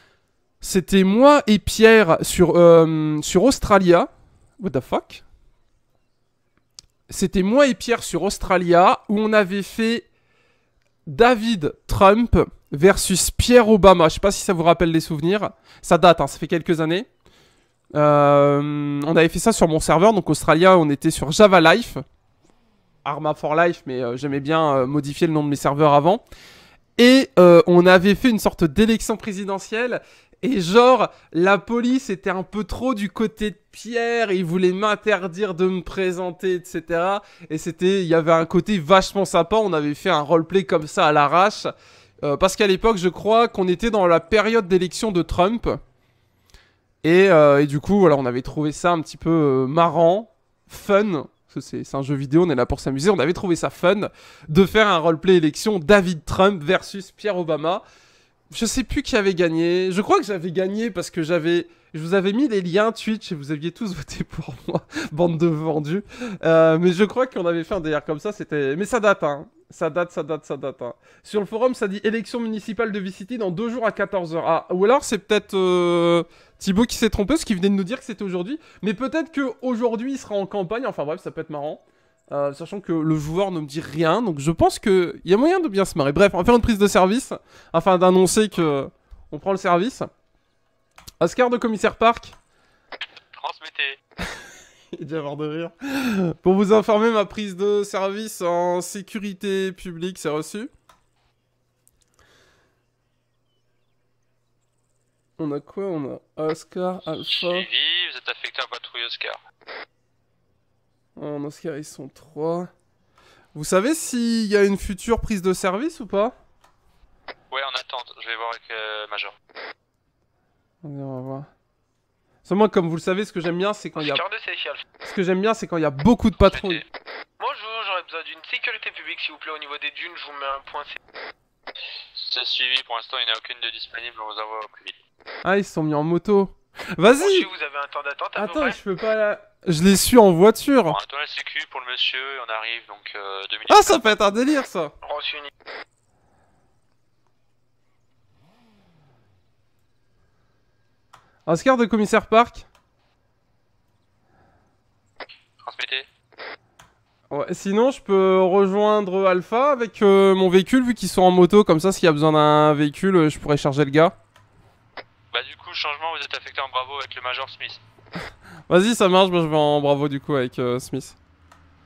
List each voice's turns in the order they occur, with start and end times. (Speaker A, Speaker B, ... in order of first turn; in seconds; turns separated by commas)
Speaker A: 0.6-5.2, Speaker A: 7.1-10.1, Speaker A: 11.1-17.1, Speaker A: 17.9-22.0, Speaker A: 23.0-26.2, Speaker A: 27.0-41.7, Speaker A: 42.2-45.8, Speaker A: 47.0-57.8, Speaker A: 58.5-90.1, Speaker A: 91.2-92.3, Speaker B: 93.3-94.0, Speaker A: 94.9-100.7, Speaker A: 105.4-107.7, Speaker B: 107.2-109.4, Speaker A: 111.2-112.7, Speaker A: 113.5-116.3, Speaker B: 117.5-119.3, Speaker A: 120.8-121.5, Speaker A: 122.5-124.2, Speaker C: 124.0-124.8, Speaker A: 125.0-126.8, Speaker B: 126.4-126.8, Speaker C: 127.4-131.0, Speaker B: 132.1-135.0, Speaker A: 135.4-137.5, Speaker C: 137.1-138.8, Speaker A: 138.3-140.9, Speaker B: 140.9-144.2, Speaker A: 143.7-144.9, Speaker C: 145.0-145.5, Speaker A: 151.4-152.7, Speaker B: 155.6-156.1, Speaker A: 157.3-164.2, Speaker B: 165.3-167.8, Speaker A: 168.7-171.2